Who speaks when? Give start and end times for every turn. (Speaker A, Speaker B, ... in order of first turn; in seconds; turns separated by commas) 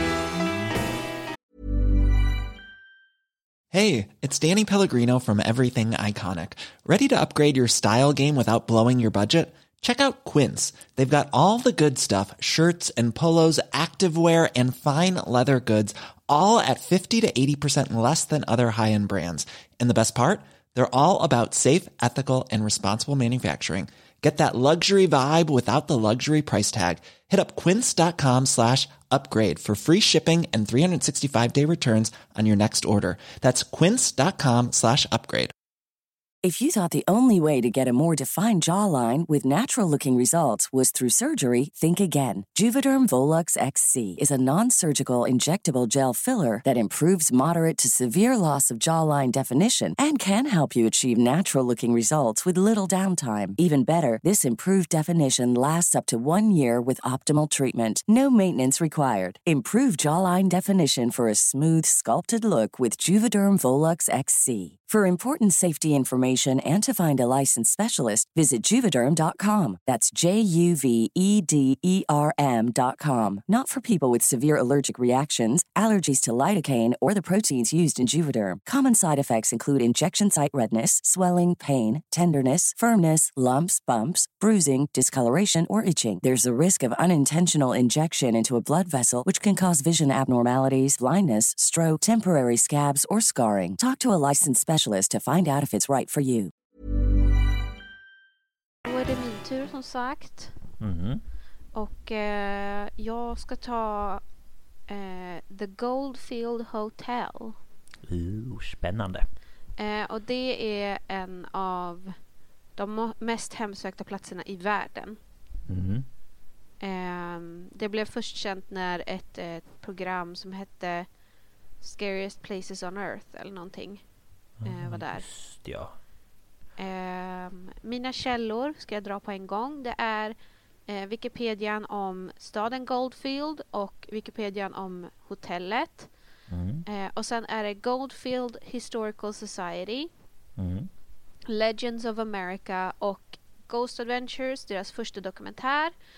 Speaker A: 3.7-35.5, Speaker B: 36.4-96.5, Speaker C: 98.8-100.5, Speaker D: 100.8-101.2, Speaker C: 101.8-104.2, Speaker C: 104.9-107.6, Speaker D: 108.0-109.3, Speaker C: 109.8-112.1, Speaker C: 112.8-115.2, Speaker D: 115.7-116.1, Speaker C: 116.8-121.1, Speaker C: 121.8-124.0, Speaker D: 124.6-126.0, Speaker C: 124.6-125.2, Speaker C: 126.8-130.4, Speaker C: 130.9-136.1, Speaker D: 136.5-136.8, Speaker C: 136.9-140.1, Speaker D: 140.6-140.9, Speaker C: 141.5-145.9